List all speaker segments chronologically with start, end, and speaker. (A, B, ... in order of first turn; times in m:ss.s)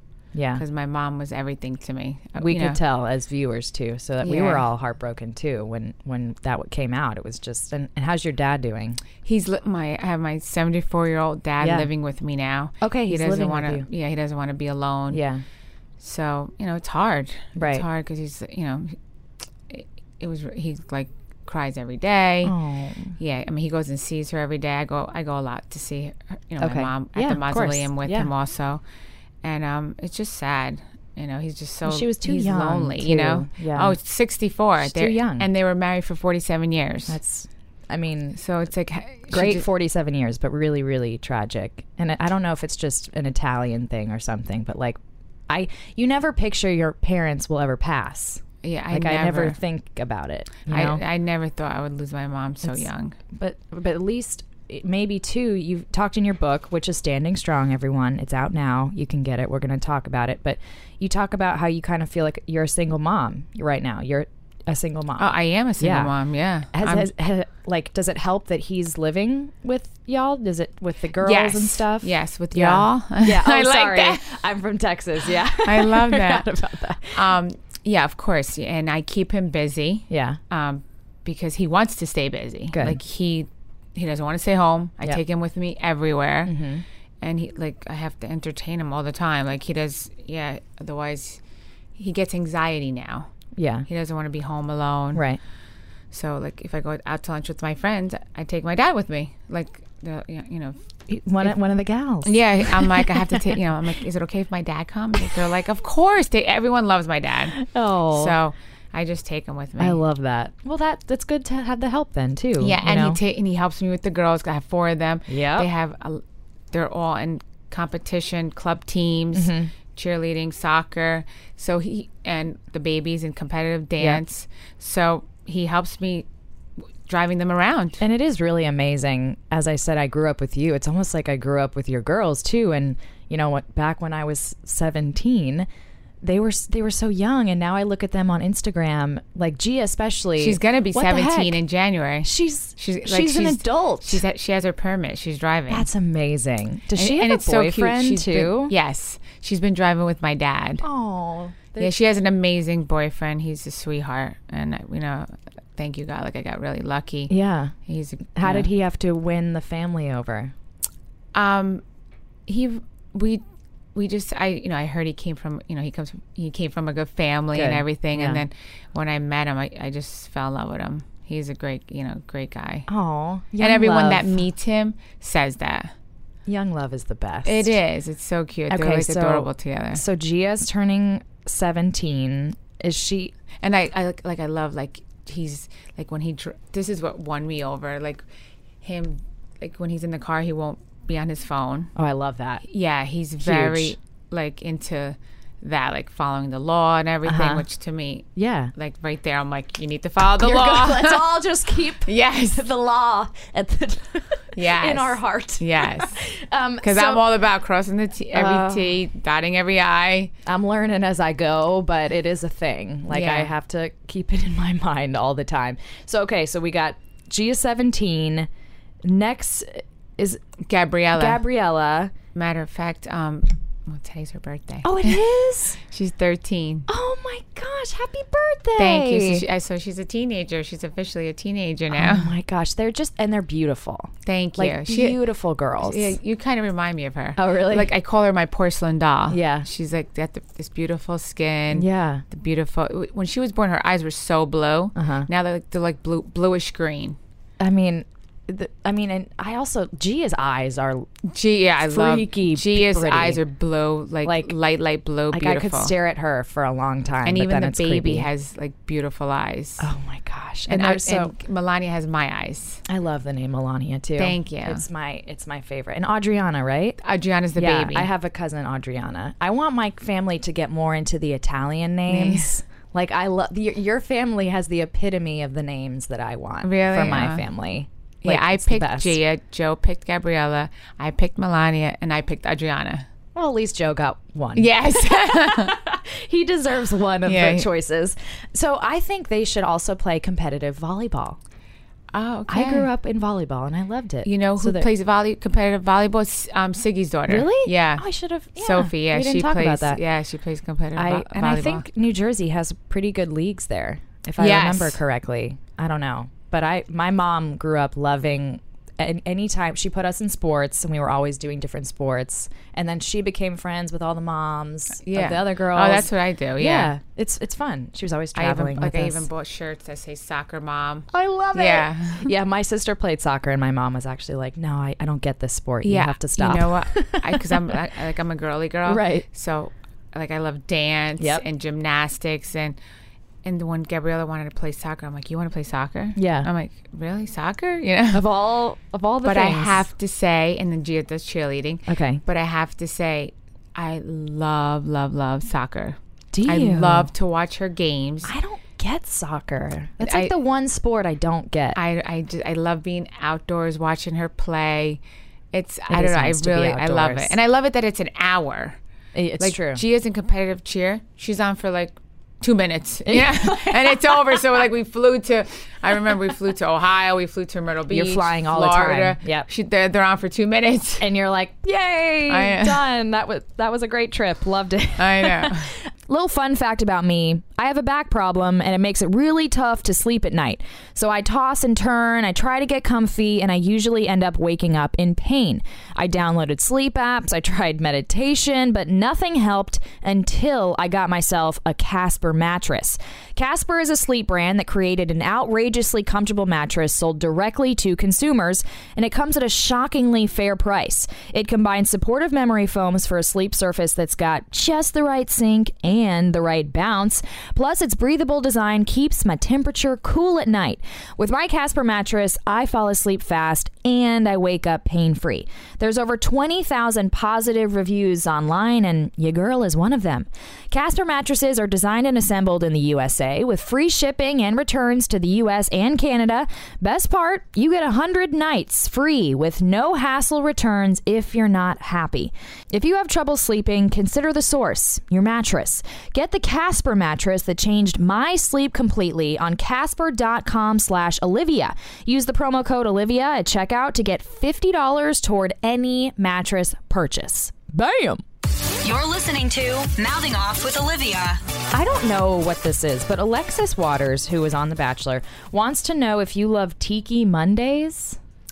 0:00.3-0:00.6 A
0:00.5-0:02.8 B
0:02.4-0:09.0 A
0:04.2-0:04.6 B
0:09.2-0:15.2 B
0:11.6-0:11.9 A
0:12.8-0:13.9 A
0:15.1-0:15.4 A
0:16.0-0:19.0 B
0:17.6-0:17.8 A
0:19.7-0:22.5 B
0:22.4-0:23.2 A
0:23.2-0:28.8 B
0:26.6-0:28.3 A
0:29.4-0:37.2 B
0:31.8-0:34.0 A
0:34.8-0:35.5 A
0:37.1-0:38.4 A
0:38.4-0:39.6 B
0:39.3-0:51.0 A
0:48.6-0:49.6 B
0:50.7-0:53.2 B
0:52.6-1:06.1 A
1:05.2-1:07.1 B
1:06.7-1:17.3 A
1:11.2-1:14.3 B
1:15.6-1:16.5 B
1:17.1-1:26.6 B
1:20.1-1:20.4 A
1:22.7-1:23.0 A
1:26.5-1:26.8 A
1:27.2-1:31.4 B
1:32.0-1:33.3 B
1:33.6-1:33.9 A
1:33.9-1:35.2 B
1:35.1-1:35.4 A
1:36.1-1:40.8 B
1:41.1-1:43.5 A
1:42.2-1:47.6 B
1:47.6-1:48.4 A
1:48.1-1:50.0 B
1:49.8-1:53.2 A
1:52.6-2:06.2 B
1:55.3-1:55.7 A
1:59.3-1:59.7 A
2:07.0-2:08.0 B
2:08.0-2:15.7 A
2:16.2-2:21.6 A
2:20.4-2:25.9 B
2:22.2-2:24.2 A
2:25.7-2:28.7 A
2:27.0-2:30.8 B
2:30.8-2:32.0 A
2:31.8-2:37.3 B
2:37.3-2:37.7 A
2:37.9-2:38.7 B
2:38.4-2:40.5 A
2:41.4-2:41.8 B
2:42.5-2:43.4 B
2:44.0-2:52.9 B
2:47.5-2:48.4 A
2:52.9-2:54.4 A
2:53.6-2:55.9 B
2:56.5-2:57.8 A
2:57.4-3:00.0 B
2:58.7-3:03.3 A
3:03.6-3:08.2 B
3:08.8-3:11.9 B
3:12.0-3:12.6 A
3:12.6-3:21.4 B
3:13.4-3:14.0 A
3:17.2-3:17.6 A
3:18.4-3:18.7 A
3:20.4-3:27.2 A
3:22.0-3:22.6 B
3:24.5-3:26.2 B
3:26.8-3:30.3 B
3:28.3-3:29.0 A
3:30.5-3:38.5 A
3:33.1-3:33.5 B
3:39.0-3:40.4 A
3:40.6-3:41.4 B
3:41.1-3:42.1 A
3:42.4-3:45.2 B
3:44.8-3:45.8 A
3:45.8-3:46.9 B
3:46.9-3:49.4 A
3:48.8-3:52.3 B
3:51.9-3:56.2 A
3:54.2-3:55.2 B
3:55.8-4:07.2 B
3:57.4-3:57.9 A
3:59.3-3:59.7 A
4:01.7-4:02.2 A
4:05.0-4:05.3 A
4:07.6-4:11.1 A
4:11.3-4:15.9 B
4:11.9-4:13.4 A
4:14.2-4:14.5 A
4:15.3-4:18.3 A
4:17.2-4:19.9 B
4:19.8-4:21.3 A
4:20.7-4:22.8 B
4:22.9-4:27.0 A
4:24.2-4:24.8 B
4:27.0-4:28.1 B
4:27.6-4:39.2 A
4:32.1-4:32.5 B
4:36.6-4:37.4 B
4:38.2-4:43.1 B
4:43.4-4:51.4 A
4:44.6-4:45.8 B
4:47.2-4:47.7 B
4:52.1-4:52.9 B
4:52.5-4:54.9 A
4:54.2-4:58.0 B
4:57.3-5:00.0 A
4:58.6-5:01.9 B
5:01.0-5:19.3 A
5:04.4-5:05.0 B
5:15.0-5:16.9 B
5:18.4-5:22.3 B
5:21.1-5:27.8 A
5:25.8-5:32.8 B
5:28.9-5:29.2 A
5:31.2-5:31.4 A
5:33.4-5:38.2 B
5:36.2-5:36.5 A
5:38.1-5:39.9 A
5:39.2-5:48.3 B
5:41.9-5:42.2 A
5:46.3-5:47.1 A
5:48.2-5:51.8 A
5:50.0-5:50.3 B
5:51.8-5:55.0 B
5:55.5-5:58.8 B
5:55.9-5:57.4 A
5:59.1-5:59.8 A
5:59.4-6:11.1 B
6:03.0-6:04.4 A
6:07.9-6:09.5 A
6:11.0-7:28.2 A
6:12.3-6:12.8 B
6:15.0-6:15.7 B
7:28.8-7:31.4 C
7:31.7-7:38.2 A